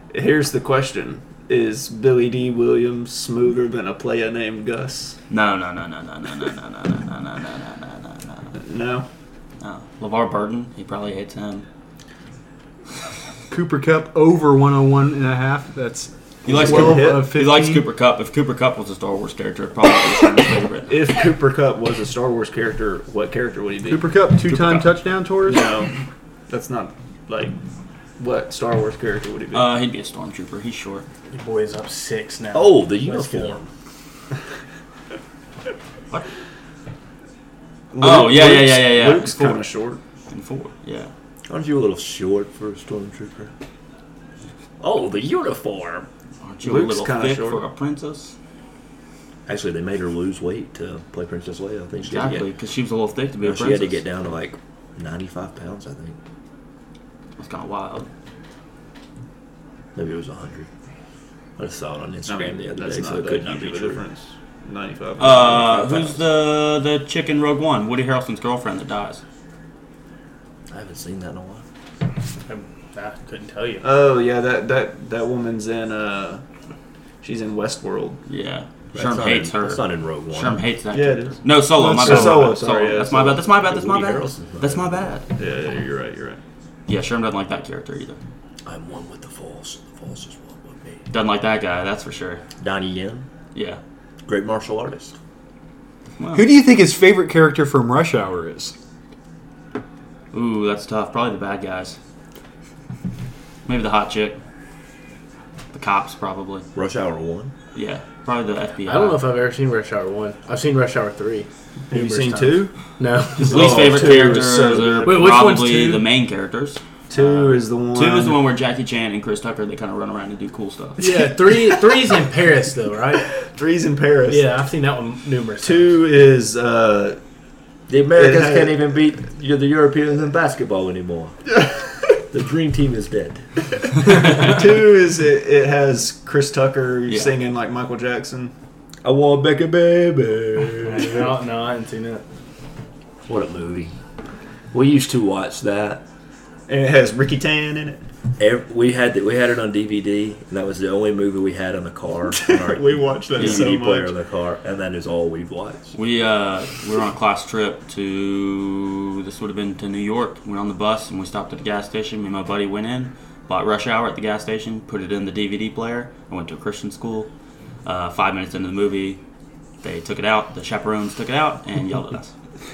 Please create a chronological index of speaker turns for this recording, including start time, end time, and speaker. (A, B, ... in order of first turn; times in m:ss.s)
0:00.1-0:05.2 A
0:05.3-0:08.5 B
0:08.6-0:09.1 A
0:09.6-0:11.6 B
0:13.5-0:17.8 C
0:16.4-0:21.0 B
0:16.5-0:17.3 A
0:20.9-0:24.8 A
0:23.8-0:25.7 C
0:25.5-0:25.9 A
0:26.5-0:27.5 A
0:28.2-0:29.7 A
0:29.5-0:31.1 B
0:31.3-0:33.6 D
0:32.5-0:33.7 E
0:37.9-0:40.0 A
0:38.0-0:39.6 B
0:40.3-0:41.1 B
0:41.5-0:43.5 E
0:44.8-0:46.1 E
0:46.4-0:48.3 B
0:46.6-0:47.6 A
0:49.5-0:52.5 E
0:52.1-0:54.0 B
0:53.4-0:56.2 E
0:57.4-0:58.1 B
1:00.0-1:00.7 E
1:01.6-1:04.0 E
1:02.3-1:05.8 A
1:05.2-1:09.2 B
1:05.5-1:06.2 E
1:10.7-1:11.6 E
1:12.5-1:13.9 D
1:13.8-1:16.4 A
1:17.2-1:18.2 A
1:18.3-1:25.2 B
1:19.0-1:20.6 E
1:20.9-1:21.4 A
1:21.7-1:22.5 C
1:21.9-1:23.4 A
1:23.6-1:25.1 E
1:25.4-1:26.4 A
1:26.9-1:28.2 B
1:28.7-1:31.0 E
1:31.1-1:32.4 B
1:32.6-1:33.3 E
1:33.6-1:33.8 B
1:34.3-1:35.1 E
1:36.2-1:36.5 B
1:36.3-1:38.7 C
1:40.3-1:42.0 B
1:43.7-1:44.4 B
1:45.7-1:46.7 B
1:46.8-1:47.5 E
1:47.7-1:49.2 B
1:48.8-1:54.4 D
1:51.9-1:52.7 A
1:53.4-2:01.0 B
1:53.4-1:55.3 A
1:55.0-1:56.1 D
1:57.1-1:58.4 A
2:01.0-2:03.3 D
2:03.4-2:04.5 A
2:04.3-2:06.0 D
2:05.6-2:07.2 A
2:07.9-2:11.4 E
2:08.1-2:08.8 A
2:12.3-2:13.4 E
2:14.0-2:18.5 A
2:17.1-2:17.3 B
2:19.0-2:21.3 E
2:20.8-2:22.2 D
2:23.3-2:24.0 E
2:24.7-2:26.0 E
2:26.7-2:28.0 A
2:28.4-2:35.9 E
2:32.3-2:34.1 A
2:33.4-2:33.7 B
2:35.9-2:47.3 B
2:47.8-2:49.2 B
2:49.8-2:52.3 B